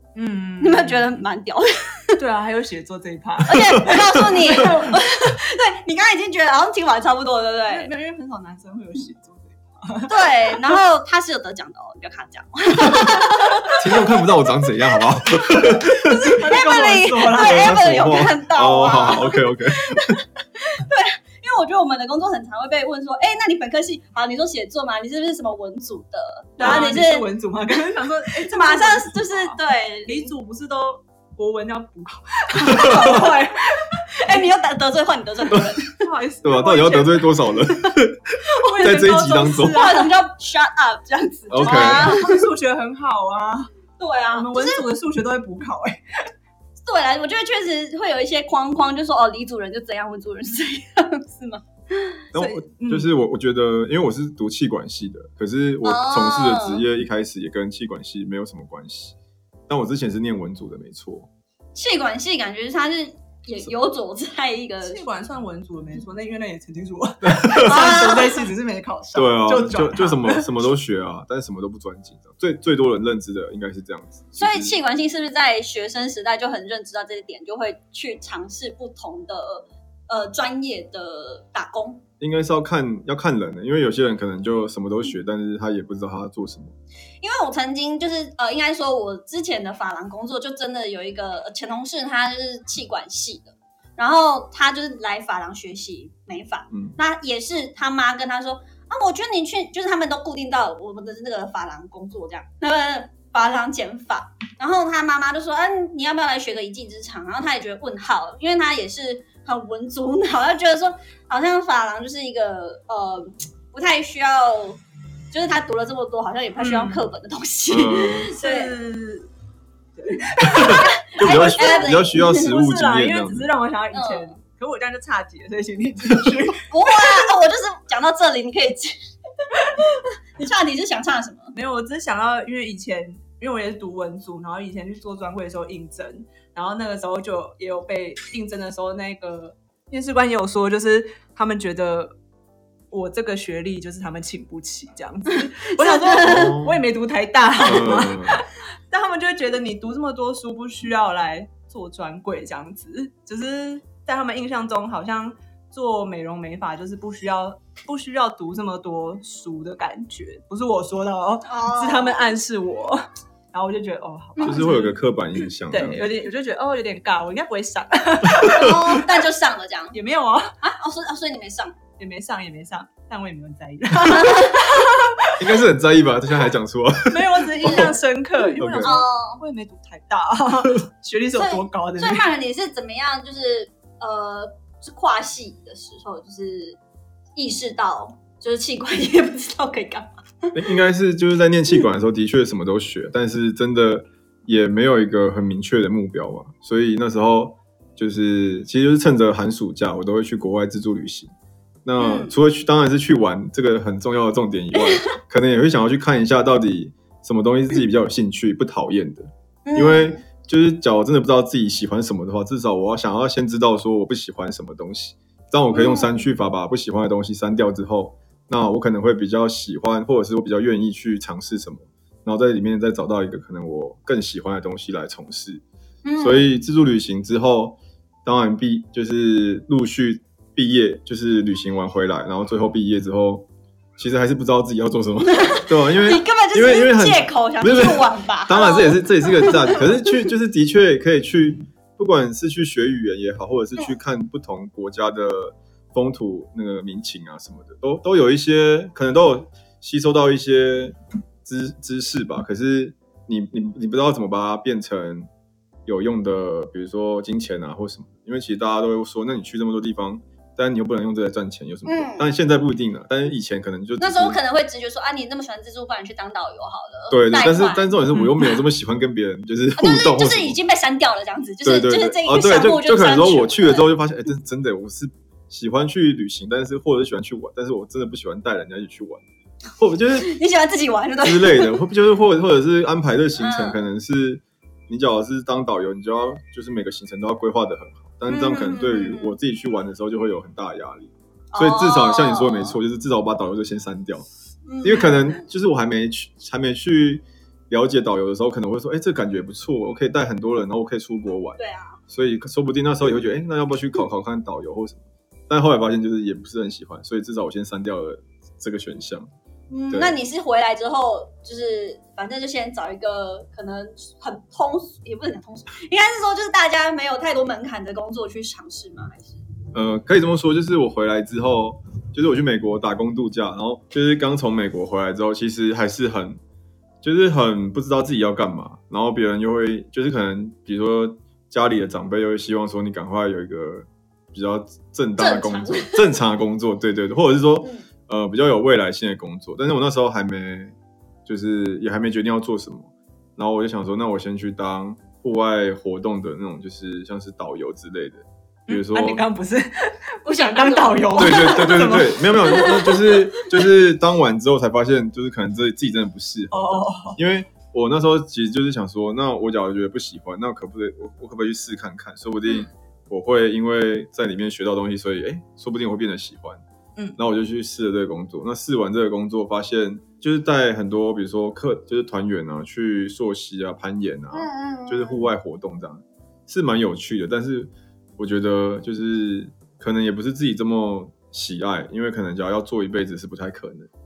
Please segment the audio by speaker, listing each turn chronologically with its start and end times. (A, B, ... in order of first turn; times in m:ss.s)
0:00.1-0:01.1 A
0:00.6-0:02.1 B
0:02.2-0:05.0 A
0:03.4-0:07.9 B
0:07.7-0:10.7 A
0:10.1-0:13.8 B
0:13.8-0:16.4 C
0:15.6-0:17.8 A
0:16.3-0:20.0 B
0:17.4-0:20.2 C
0:20.7-0:27.3 B
0:26.6-0:34.0 A
0:26.6-0:26.9 C
0:28.4-0:30.3 B
0:32.7-0:33.2 C
0:32.8-0:33.3 B
0:34.2-0:36.0 B
0:35.9-0:37.4 A
0:36.4-0:39.9 C
0:38.6-0:40.2 A
0:38.8-0:42.4 B
0:41.5-0:42.2 C
0:41.5-0:43.7 A
0:44.0-0:44.8 B
0:44.3-0:46.0 A
0:46.8-0:52.2 B
0:52.3-0:59.2 C
0:52.3-0:53.1 A
0:55.8-0:56.8 B
0:59.7-1:01.3 C
1:01.7-1:05.0 B
1:04.8-1:10.5 A
1:07.2-1:08.1 C
1:07.6-1:08.4 B
1:09.1-1:14.7 C
1:14.4-1:22.0 B
1:22.2-1:26.7 C
1:27.2-1:54.8 B
1:36.7-1:37.0 C
1:55.3-1:58.7 B
1:56.6-1:57.0 A
1:57.7-1:58.3 C
1:58.4-1:59.3 A
2:00.0-2:07.2 A
2:00.4-2:03.5 C
2:00.4-2:02.5 B
2:03.9-2:04.4 B
2:06.7-2:09.0 B
2:09.5-2:11.5 B
2:11.5-2:22.2 A
2:22.9-2:45.0 A
2:25.3-2:26.4 B
2:26.2-2:26.8 C
2:27.6-2:28.4 C
2:41.4-2:42.2 B
2:44.4-2:44.6 B
2:44.4-2:46.1 C
2:45.7-2:49.1 A
2:48.4-2:50.0 B
2:49.9-2:50.5 A
2:50.6-2:51.7 B
2:52.0-2:55.5 A
2:54.1-2:54.7 B
2:55.3-2:58.0 C
2:57.1-3:02.3 A
2:57.6-2:58.0 B
2:58.6-2:59.0 C
2:58.7-2:59.4 B
3:01.3-3:06.8 B
3:07.4-3:10.6 B
3:10.5-3:21.3 C
3:21.8-3:45.6 C
3:22.0-3:22.3 B
3:24.8-3:25.2 B
3:29.6-3:30.2 B
3:35.7-3:36.2 B
3:46.0-3:46.6 B
3:46.2-4:15.3 C
3:55.3-3:59.8 B
4:15.8-4:24.4 C
4:21.8-4:22.3 B
4:24.0-4:27.9 B
4:27.1-4:30.6 C
4:29.8-4:33.9 B
4:31.6-4:39.2 C
4:39.8-4:40.3 C
4:40.1-4:41.7 B
4:41.2-4:54.3 C
4:43.4-4:43.8 B
4:48.3-4:49.4 B
4:51.5-4:52.8 B
4:54.6-4:55.4 B
4:54.8-5:09.3 C
5:01.6-5:02.0 B
5:09.7-5:19.4 B
5:09.9-5:10.2 C
5:19.7-5:26.4 C
5:27.0-5:40.7 C
5:35.2-5:36.2 B
5:41.2-5:49.2 C
5:48.7-5:52.7 A
5:50.2-5:51.7 B
5:51.1-6:06.6 C
5:52.4-5:53.4 B
5:56.5-5:57.2 A
6:07.2-6:23.9 C
6:14.3-6:15.3 B